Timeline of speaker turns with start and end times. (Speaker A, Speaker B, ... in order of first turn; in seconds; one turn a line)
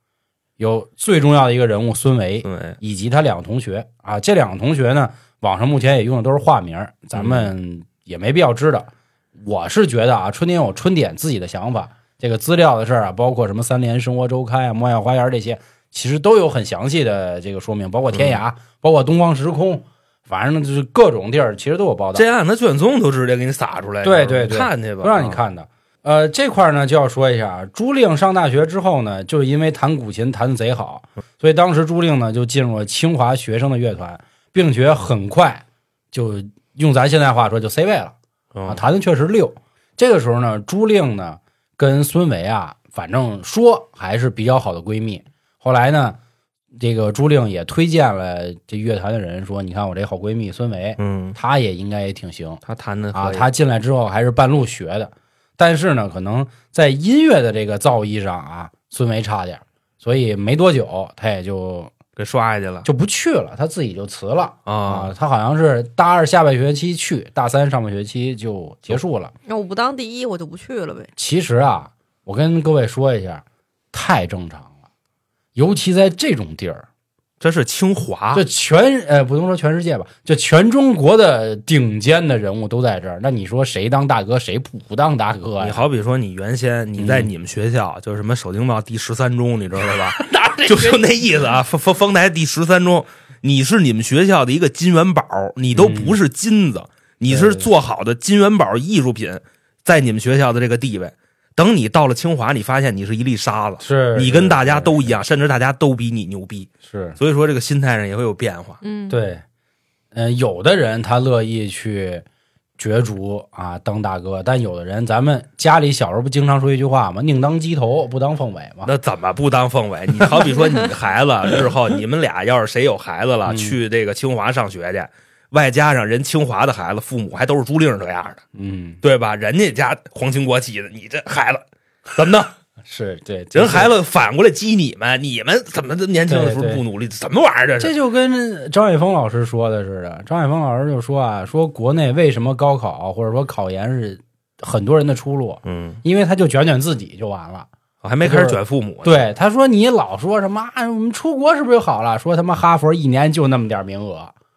Speaker A: 0.6-22.2
Speaker B: 2.4-2.8
Speaker B: 7.1-7.5
Speaker B: 18.1-18.4
Speaker B: 22.1-25.4
Speaker A: 24.0-38.1
Speaker B: 38.5-38.8
Speaker A: 38.7-46.2
Speaker A: 46.8-52.6
Speaker B: 51.0-51.4
Speaker B: 52.6-53.5
Speaker A: 53.1-61.9
Speaker B: 62.1-62.9
Speaker A: 62.8-69.3
Speaker B: 64.7-65.1
Speaker C: 69.5-71.1
Speaker A: 71.2-74.7
Speaker A: 75.5-76.8
Speaker B: 77.4-78.4
Speaker A: 78.3-85.8
Speaker B: 85.6-108.8
Speaker A: 87.0-87.3
Speaker A: 90.2-91.0
Speaker A: 95.7-96.2
Speaker A: 97.3-97.7
Speaker A: 103.8-105.2
Speaker A: 106.9-107.2
Speaker C: 108.8-109.2
Speaker A: 109.1-109.4
Speaker A: 110.1-112.2
Speaker A: 112.8-118.9
Speaker B: 118.8-128.4
Speaker A: 123.5-123.8
Speaker A: 128.5-129.0
Speaker B: 129.0-132.5
Speaker A: 132.9-133.9
Speaker B: 133.5-137.9
Speaker A: 136.3-136.8
Speaker A: 137.8-147.7
Speaker B: 145.6-146.0
Speaker B: 148.0-149.2
Speaker A: 148.2-154.3